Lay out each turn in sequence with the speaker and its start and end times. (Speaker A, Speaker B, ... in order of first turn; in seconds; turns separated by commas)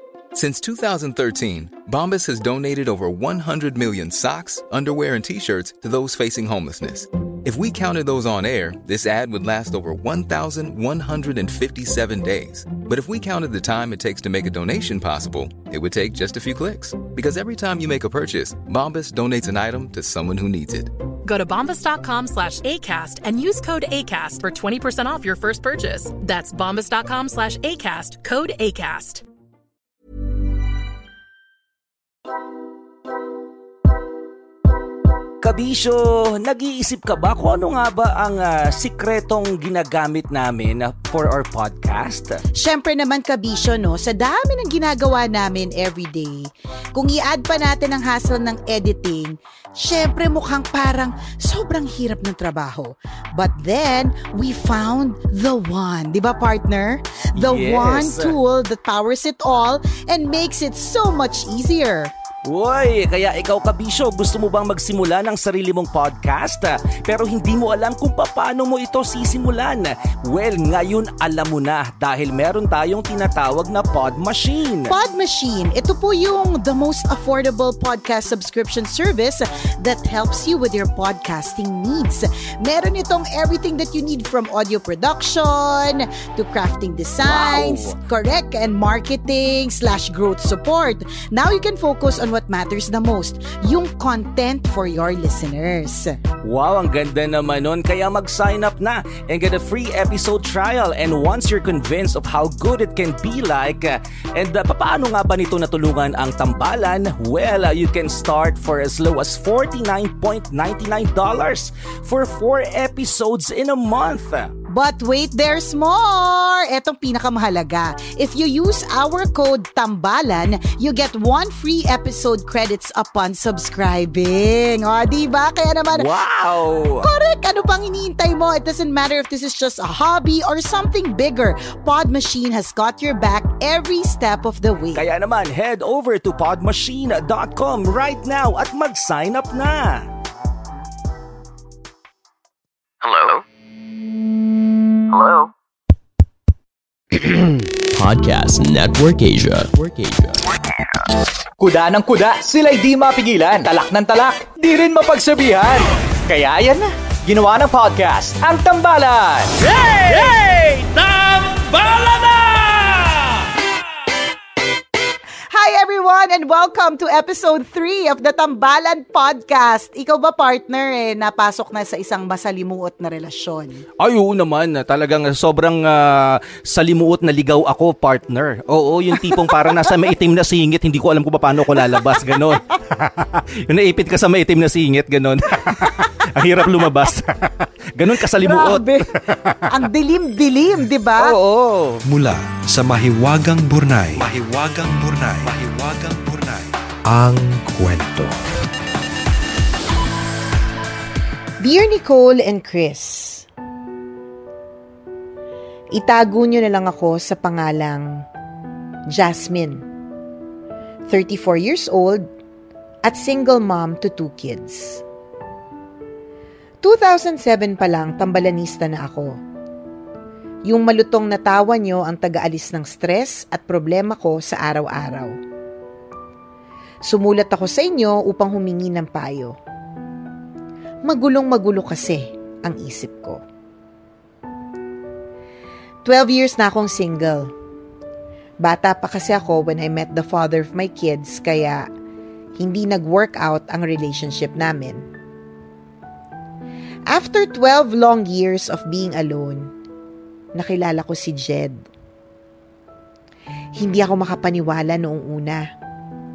Speaker A: 0.3-20.9, Speaker B: 21.2-29.2, Speaker C: 35.4-42.4, Speaker D: 42.5-62.1, Speaker C: 57.4-58.4, Speaker C: 62.5-74.9, Speaker D: 74.9-96.2, Speaker C: 87.2-88.0, Speaker C: 96.4-114.5, Speaker D: 114.7-126.1, Speaker C: 125.9-127.1, Speaker D: 127.0-135.0, Speaker C: 134.9-140.1, Speaker E: 143.0-143.4, Speaker E: 145.1-145.5, Speaker F: 147.2-150.3, Speaker E: 151.6-163.2, Speaker D: 165.5-173.8, Speaker C: 174.0-188.9, Speaker D: 179.2-179.8, Speaker D: 181.7-182.1, Speaker D: 188.4-189.1, Speaker D: 189.7-191.3, Speaker C: 191.2-192.0, Speaker G: 192.1-198.4, Speaker D: 201.6-203.5, Speaker D: 205.9-208.2, Speaker D: 209.1-209.8, Speaker D: 211.1-212.2, Speaker D: 213.0-215.0, Speaker D: 216.8-219.4, Speaker D: 220.7-225.3, Speaker D: 227.0-229.6, Speaker D: 231.1-233.4, Speaker D: 236.0-237.5, Speaker D: 238.6-241.8, Speaker D: 242.6-245.0, Speaker D: 247.1-249.7, Speaker D: 250.5-251.8, Speaker D: 253.8-255.6